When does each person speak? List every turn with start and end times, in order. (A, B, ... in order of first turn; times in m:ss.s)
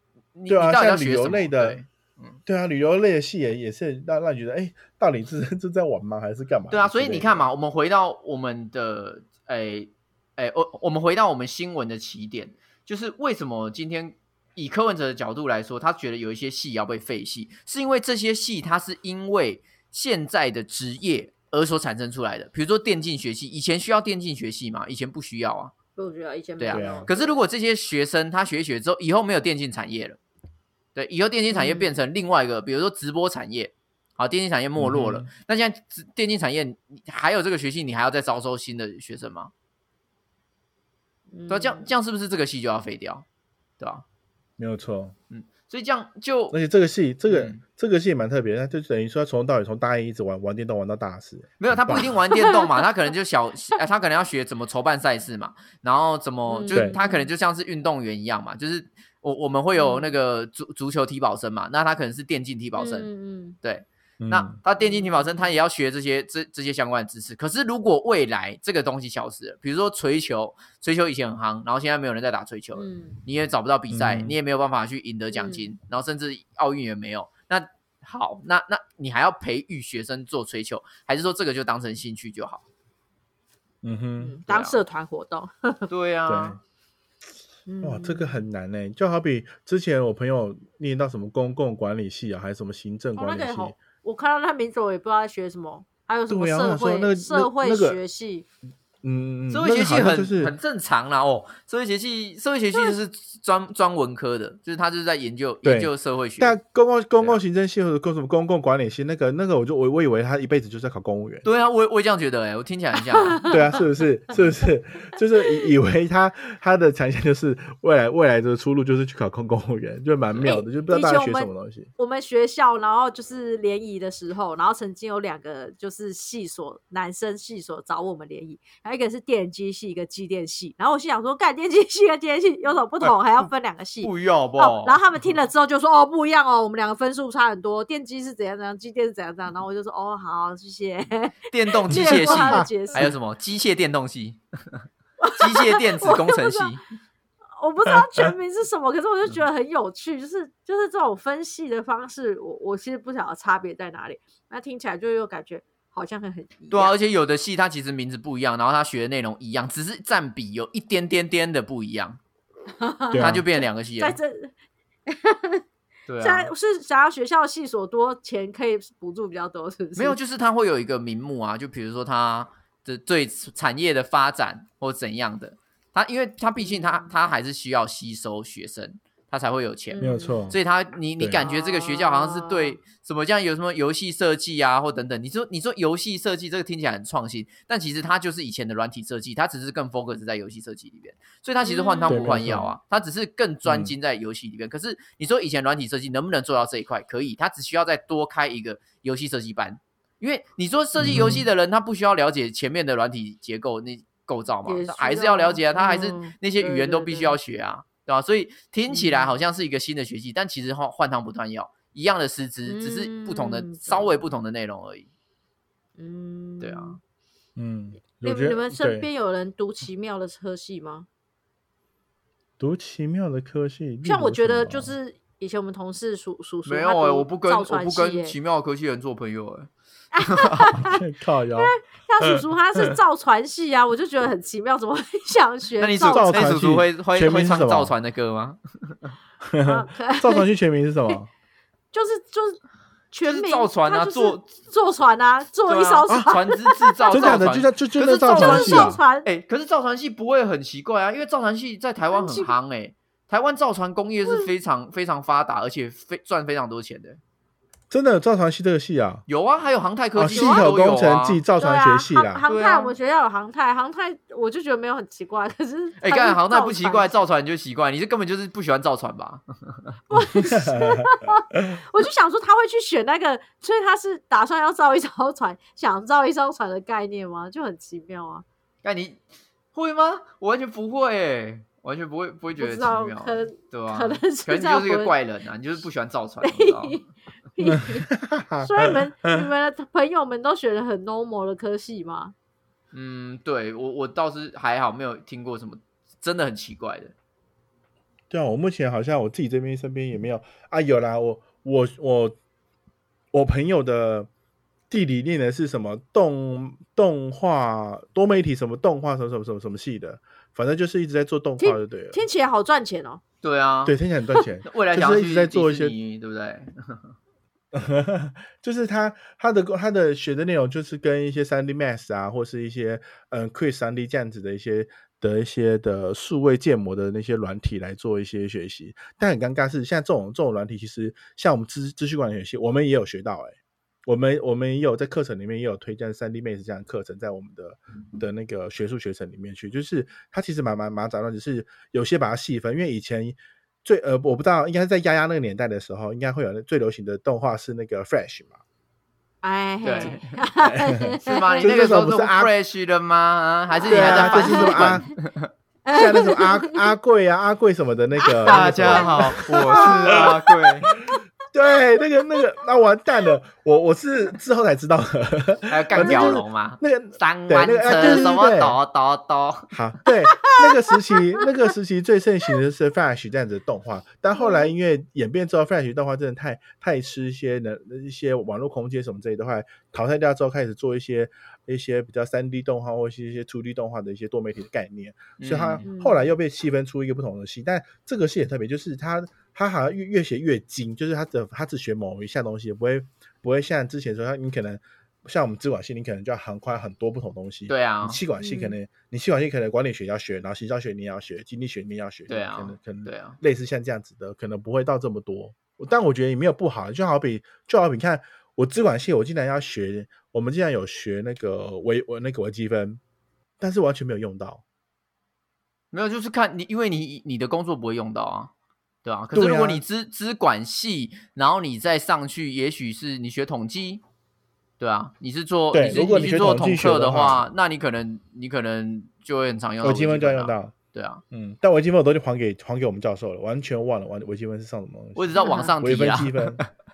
0:00.4-0:02.4 A
0:00.5-0:01.8 B
0:02.5-0:07.5 B
0:06.7-0:25.7 A
0:26.0-0:27.4 C
0:26.6-0:30.2 A
0:26.7-0:27.1 B
0:31.0-0:39.5 A
0:31.5-0:32.0 C
0:34.8-0:35.3 B
0:41.3-0:41.9 C
0:41.5-0:43.2 A
0:43.8-0:44.0 A
0:44.6-0:45.2 B
0:45.3-0:46.6 A
0:46.5-0:52.2 B
0:47.3-0:47.6 A
0:51.6-1:03.1 A
0:52.3-0:52.7 C
0:56.5-0:57.3 C
0:56.7-0:57.0 B
0:59.8-1:00.2 C
1:02.8-1:03.6 C
1:03.6-1:22.6 A
1:04.2-1:04.6 B
1:04.8-1:05.3 C
1:12.8-1:13.2 C
1:13.9-1:14.4 B
1:15.3-1:15.7 C
1:23.8-1:24.4 B
1:24.2-1:25.9 C
1:24.5-1:24.8 A
1:25.9-1:26.6 A
1:26.3-1:26.6 B
1:27.7-1:28.4 C
1:27.8-1:33.8 B
1:33.2-1:38.5 C
1:36.3-1:38.0 B
1:39.0-1:40.6 B
1:39.5-1:46.6 A
1:45.6-1:51.4 B
1:51.4-1:53.5 A
1:53.2-1:53.5 C
1:53.5-2:01.9 B
2:00.3-2:00.6 A
2:00.4-2:23.0 C
2:14.0-2:15.0 A
2:21.5-2:24.8 A
2:21.9-2:23.1 B
2:25.2-2:26.7 C
2:25.4-2:26.8 A
2:27.6-2:36.9 C
2:36.7-2:42.2 A
2:42.8-2:44.5 C
2:43.1-2:43.4 B
2:43.2-2:44.2 A
2:45.1-2:45.6 C
2:46.1-2:46.5 A
2:46.2-2:50.2 C
2:50.0-3:35.1 A
2:56.6-2:57.1 C
2:59.9-3:00.4 C
3:00.0-3:00.6 B
3:01.2-3:01.4 B
3:01.4-3:02.8 C
3:11.6-3:12.4 C
3:12.1-3:12.7 B
3:13.7-3:13.9 B
3:21.0-3:21.5 B
3:24.6-3:27.4 C
3:28.9-3:29.3 C
3:32.7-3:34.1 C
3:36.0-3:37.0 C
3:36.6-3:37.0 A
3:37.6-3:39.1 B
3:38.2-3:41.1 C
3:42.6-3:44.9 B
3:44.0-3:48.4 C
3:46.7-3:50.8 A
3:50.1-3:51.0 C
3:50.8-3:51.7 B
3:51.6-3:56.5 C
3:55.8-3:59.1 A
3:56.0-3:57.9 B
3:59.4-4:01.3 B
3:59.7-4:00.5 C
4:01.9-4:02.6 C
4:03.1-4:07.5 C
4:03.2-4:04.5 A
4:05.7-4:17.2 A
4:07.1-4:09.0 B
4:08.3-4:09.3 C
4:12.1-4:12.5 C
4:14.2-4:14.5 C
4:17.9-4:19.2 B
4:19.3-4:21.4 A
4:20.2-4:22.4 B
4:20.3-4:20.7 C
4:21.6-4:27.2 C
4:22.5-4:22.9 A
4:26.0-4:29.9 A
4:30.1-4:38.4 C
4:30.1-4:31.8 B
4:38.8-4:39.2 A
4:39.7-4:47.1 A
4:42.6-4:45.1 C
4:46.4-4:47.0 C
4:47.6-4:48.1 C
4:48.1-4:49.0 B
4:48.6-4:52.3 C
4:52.9-4:57.1 A
4:58.3-5:02.4 B
5:03.3-5:04.3 B
5:04.9-5:12.2 B
5:11.6-5:13.2 C
5:13.4-5:14.0 A
5:13.8-5:16.0 B
5:14.6-5:17.2 A
5:17.7-5:48.6 B
5:49.4-5:51.7 C
5:49.8-5:50.4 A
5:50.6-5:52.5 B
5:51.0-5:55.5 A
5:53.9-5:55.0 C
5:53.9-5:55.1 B
5:55.9-5:56.8 C
5:55.9-6:08.8 B
5:58.2-6:00.9 C
5:58.4-6:00.9 A
6:05.7-6:09.7 A
6:06.0-6:06.4 C
6:08.0-6:08.3 C
6:09.7-6:53.0 B
6:10.4-6:11.4 C
6:14.4-6:14.7 C
6:25.4-6:25.9 A
6:25.8-6:26.3 C
6:37.7-6:38.2 A
6:38.4-6:38.8 C
6:42.3-6:43.4 A
6:53.6-6:54.6 B
6:55.9-6:58.5 A
6:59.0-7:04.0 A
6:59.3-6:59.8 B
7:04.8-7:11.2 A
7:05.7-7:07.4 B
7:09.8-7:10.8 B
7:11.3-7:16.6 B
7:15.2-7:16.7 A
7:15.4-7:15.7 C